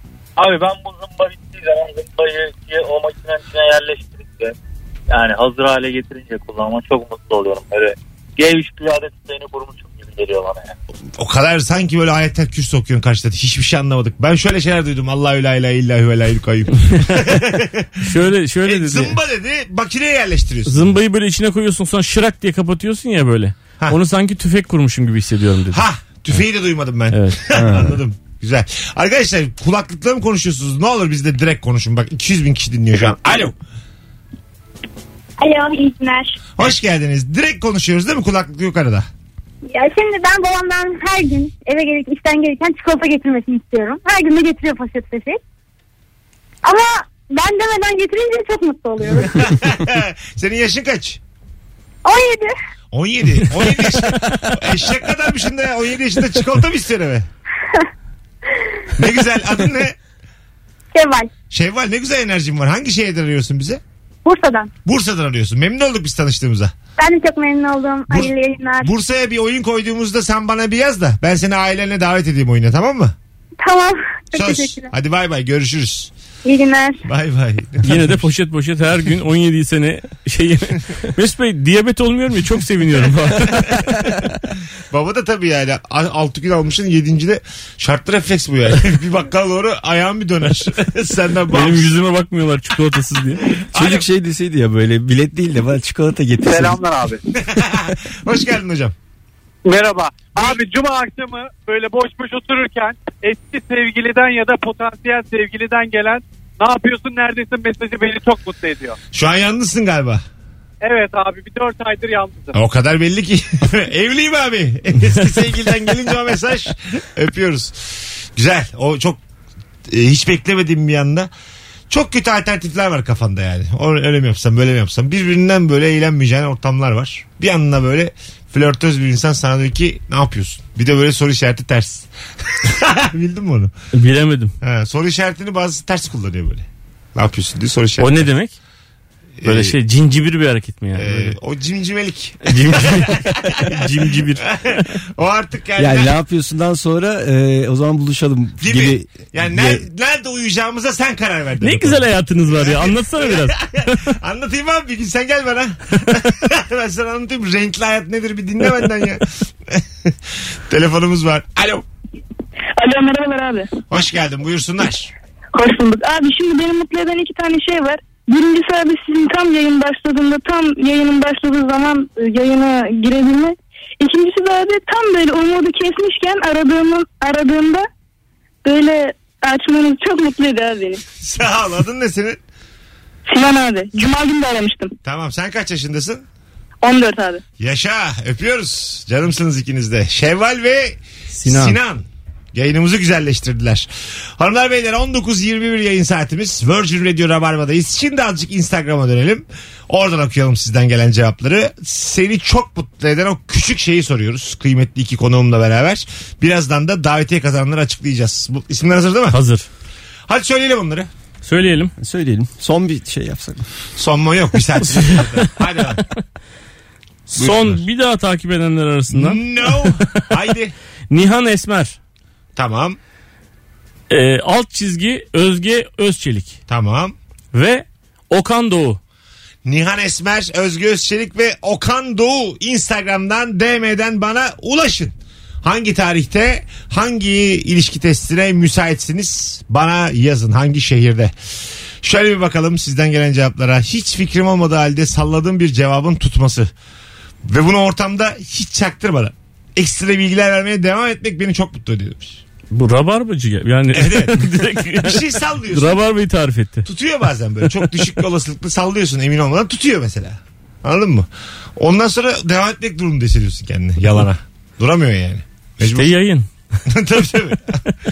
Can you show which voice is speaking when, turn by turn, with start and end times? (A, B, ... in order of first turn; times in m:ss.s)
0:00.4-0:04.5 A
0:05.1-0:10.7 A
0:11.2-0:18.0 B
0:17.0-0:17.4 C
0:18.0-0:19.2 C
0:18.7-0:20.9 B
0:20.7-0:26.4 C
0:25.7-0:33.5 B
0:27.1-0:27.6 C
0:27.5-0:28.0 D
0:35.4-0:36.4 E
0:36.6-0:39.1 B
0:39.7-0:45.4 E
0:46.6-0:49.4 E
0:49.4-0:51.2 B
0:52.0-0:52.5 E
0:52.9-0:57.3 B
0:59.0-1:00.0 B
1:00.9-1:01.3 E
1:01.5-1:03.8 B
1:04.2-1:04.7 E
1:04.8-1:06.7 B
1:07.0-1:08.9 E
1:08.8-1:13.2 B
1:13.6-1:14.9 E
1:14.4-1:16.1 B
1:16.4-1:17.0 E
1:17.1-1:18.3 B
1:17.8-1:24.3 C
1:24.9-1:31.9 B
1:31.5-1:33.6 C
1:33.7-1:36.8 D
1:33.7-1:34.1 B
1:37.3-1:39.0 B
1:39.7-1:49.0 F
1:49.1-1:50.2 B
1:50.8-1:52.6 F
1:52.5-1:59.2 B
1:59.9-2:01.3 B
2:01.9-2:13.7 B
2:13.9-2:14.5 C
2:14.6-2:18.3 B
2:18.0-2:18.6 C
2:19.4-2:19.8 B
2:19.4-2:21.4 C
2:21.0-2:23.9 B
2:22.4-2:24.9 C
2:24.5-2:26.1 B
2:25.8-2:29.8 D
2:28.6-2:40.2 B
2:31.6-2:34.1 C
2:40.7-2:41.8 B
2:42.8-2:43.7 G
2:43.9-2:45.1 B
2:45.5-2:57.9 G
2:58.6-3:01.0 G
3:01.2-3:02.4 B
3:03.3-3:04.9 G
3:05.0-3:06.2 B
3:06.8-3:07.4 G
3:07.6-3:29.4 B
3:11.4-3:11.8 C
3:29.3-3:29.7 C
3:30.3-3:31.1 B
3:31.4-3:31.9 C
3:32.0-3:33.6 D
3:34.0-3:36.0 B
3:34.8-3:35.5 C
3:37.3-3:40.2 C
3:39.1-3:40.7 B
3:41.1-3:42.0 C
3:42.6-3:43.0 B
3:44.1-3:46.6 C
3:46.7-3:47.2 B
3:47.5-3:49.0 C
3:49.6-4:01.3 B
4:02.0-4:06.7 B
4:07.4-4:12.4 B
4:12.7-4:16.8 C
4:13.9-4:16.0 B
4:16.8-4:26.1 B
4:25.8-4:26.5 C
4:26.9-4:27.8 B